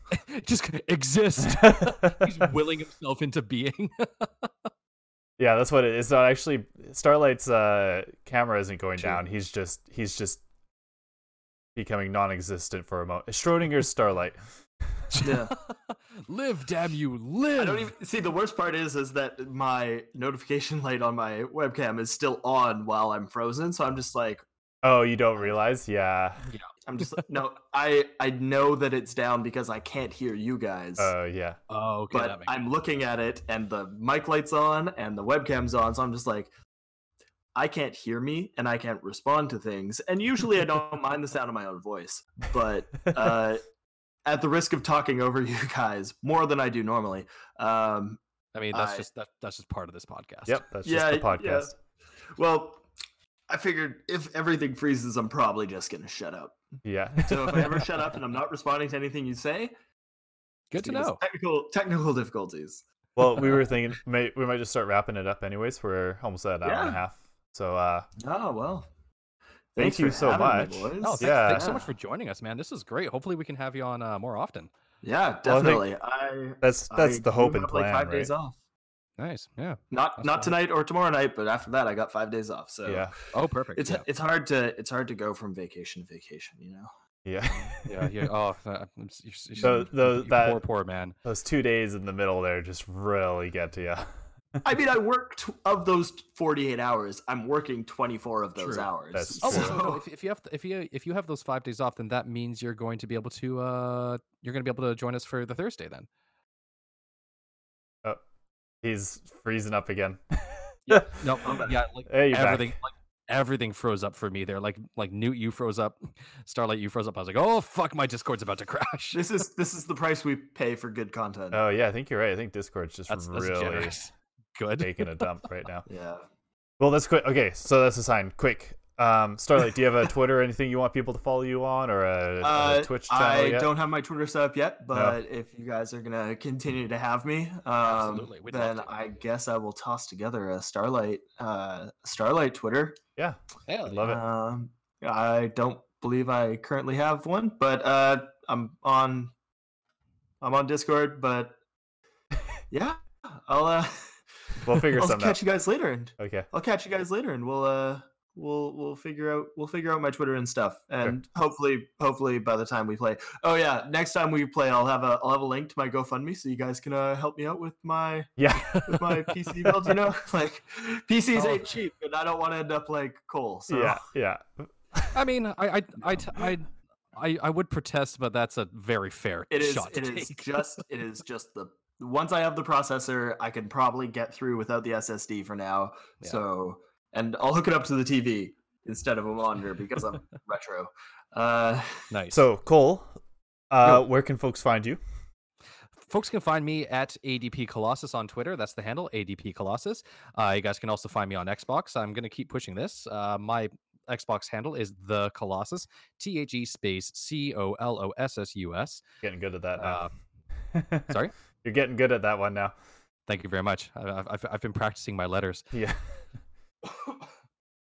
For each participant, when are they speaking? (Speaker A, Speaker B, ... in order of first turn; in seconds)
Speaker A: 0.1-4.5, 15.1-17.9, 26.4-27.2, 31.7-32.5, 48.5-50.6, 60.7-61.2, 71.0-74.7, 79.2-80.5, 83.3-84.0, 87.8-91.1, 98.6-106.1, 110.9-119.2, 123.1-125.2, 137.8-139.2, 143.7-144.1, 168.6-169.4, 171.3-171.6, 175.1-180.8, 192.1-192.4, 196.0-209.0, 209.8-210.1, 213.3-215.7
Speaker B: 1.4-2.5, 5.4-10.4, 11.8-14.4, 24.8-26.4, 31.0-31.6, 50.5-51.8, 56.8-57.8, 63.1-68.1, 69.8-71.8, 75.5-75.9, 76.6-78.3, 82.8-83.1, 87.2-88.3, 89.6-90.6, 91.2-94.1, 99.1-99.8, 108.8-111.3, 112.1-112.8, 121.5-124.0, 124.8-125.8, 126.8-133.7, 134.9-135.2, 143.2-144.2, 154.6-155.4, 156.2-156.5, 168.4-168.9, 173.7-175.2, 192.3-193.1, 193.7-195.0, 209.2-210.0, 210.7-212.7, 215.7-216.0
Speaker C: 15.2-15.5, 17.5-24.4, 26.9-31.1, 32.1-36.5, 37.5-43.6, 44.2-48.2, 48.7-49.1, 50.8-51.7, 52.3-52.8, 53.5-56.6, 57.2-59.7, 60.8-62.8, 66.6-67.0, 68.2-68.9, 69.7-71.9, 75.0-78.6, 79.9-83.1, 83.7-86.9, 94.6-100.0, 111.4-111.8, 119.1-121.6, 125.8-126.2, 132.4-143.0, 144.0-149.3, 150.4-151.6, 152.7-154.1, 154.6-174.0, 179.5-192.1